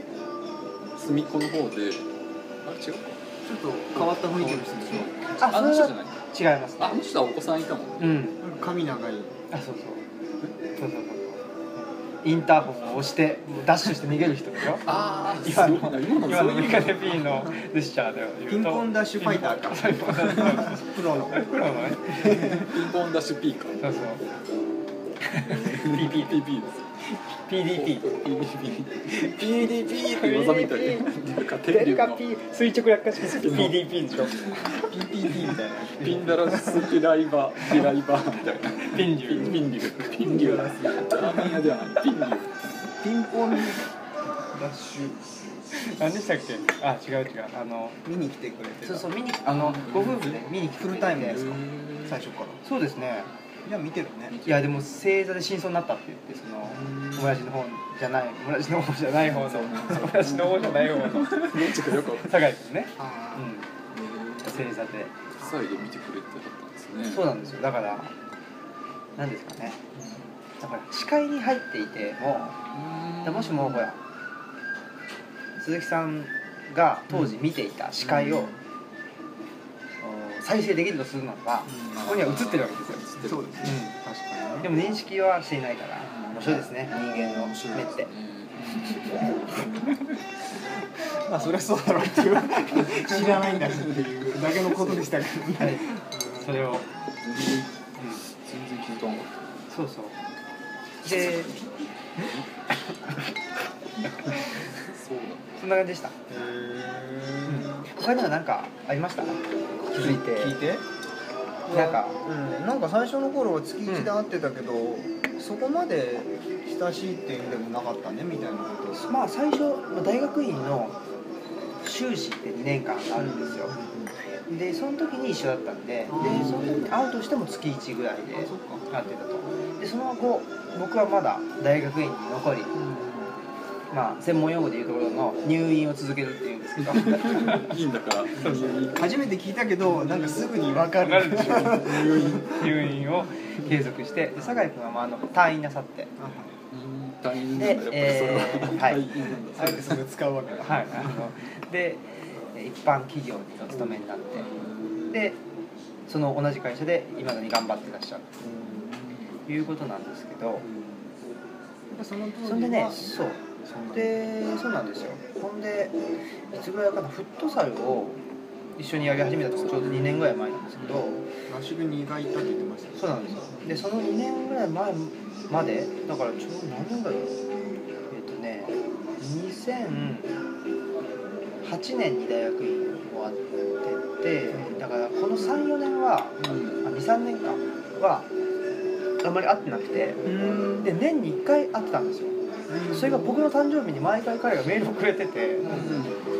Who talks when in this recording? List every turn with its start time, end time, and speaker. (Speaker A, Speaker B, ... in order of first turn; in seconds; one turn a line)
Speaker A: 0.9-2.0
Speaker A: 2.6-3.2
Speaker B: 3.4-5.1
Speaker A: 3.9-6.2
Speaker C: 5.4-7.0
Speaker A: 6.8-8.2
Speaker C: 8.0-8.4
Speaker B: 8.4-9.3
Speaker C: 9.5-10.0
Speaker C: 10.8-22.7
Speaker A: 14.8-17.5
Speaker B: 18.5-21.5
Speaker A: 22.2-23.8
Speaker B: 22.2-22.6
Speaker C: 23.8-24.2
Speaker C: 25.2-26.4
Speaker A: 25.5-26.8
Speaker C: 27.5-28.1
Speaker A: 27.7-32.2
Speaker C: 29.1-31.1
Speaker C: 31.6-34.7
Speaker A: 33.2-34.8
Speaker B: 34.5-36.9
Speaker A: 35.5-42.8
Speaker C: 38.8-39.6
Speaker B: 40.2-41.6
Speaker B: 43.0-43.8
Speaker B: 44.4-45.2
Speaker C: 45.7-48.0
Speaker B: 48.0-49.1
Speaker C: 48.8-51.4
Speaker A: 49.4-50.5
Speaker B: 50.7-52.6
Speaker A: 51.2-52.2
Speaker C: 52.6-53.3
Speaker B: 53.6-54.4
Speaker A: 54.3-54.7
Speaker C: 54.4-63.7
Speaker A: 56.7-57.4
Speaker A: 59.2-62.3
Speaker B: 63.0-63.5
Speaker A: 63.9-64.8
Speaker C: 64.4-65.1
Speaker A: 65.3-67.3
Speaker C: 67.1-68.1
Speaker C: 69.2-69.8
Speaker C: 70.6-72.6
Speaker A: 72.7-73.8
Speaker C: 73.2-74.0
Speaker C: 75.6-78.5
Speaker C: 80.0-83.1
Speaker A: 81.8-83.6
Speaker B: 83.2-84.7
Speaker C: 83.6-83.9
Speaker C: 84.6-88.1
Speaker A: 86.2-89.1
Speaker B: 88.7-89.1
Speaker B: 91.0-96.5
Speaker A: 92.8-95.0
Speaker C: 95.6-96.9
Speaker A: 97.2-99.6
Speaker C: 99.7-100.2
Speaker C: 101.0-101.5
Speaker A: 102.2-102.4
Speaker A: 104.3-105.5
Speaker C: 105.6-106.2
Speaker B: 106.3-107.9
Speaker C: 107.5-110.6
Speaker B: 109.9-110.8
Speaker B: 111.7-119.0
Speaker C: 111.7-112.2
Speaker C: 119.0-121.0
Speaker C: 121.8-123.8
Speaker B: 123.2-124.1
Speaker C: 124.5-132.7
Speaker B: 126.1-126.8
Speaker A: 126.3-126.6
Speaker B: 128.3-128.8
Speaker B: 132.7-133.3
Speaker C: 133.9-137.7
Speaker A: 136.9-139.2
Speaker C: 138.3-138.8
Speaker B: 138.9-142.7
Speaker A: 139.9-140.5
Speaker C: 141.0-146.1
Speaker A: 141.2-142.7
Speaker B: 146.2-146.5
Speaker A: 146.7-150.0
Speaker C: 147.5-149.1
Speaker B: 149.5-151.2
Speaker C: 150.6-154.5
Speaker C: 155.1-155.4
Speaker C: 156.1-158.4
Speaker B: 158.4-158.9
Speaker C: 159.5-160.7
Speaker B: 160.6-161.0
Speaker B: 161.9-164.2
Speaker C: 162.4-163.4
Speaker C: 163.9-166.0
Speaker C: 166.5-168.2
Speaker C: 168.8-171.2
Speaker B: 169.8-170.3
Speaker B: 171.5-173.6
Speaker C: 173.0-177.4
Speaker C: 178.1-180.3
Speaker C: 181.6-188.3
Speaker B: 184.5-184.8
Speaker A: 186.4-186.8
Speaker C: 189.2-192.4
Speaker B: 190.2-190.9
Speaker B: 192.7-193.3
Speaker C: 192.9-195.9
Speaker A: 195.6-196.2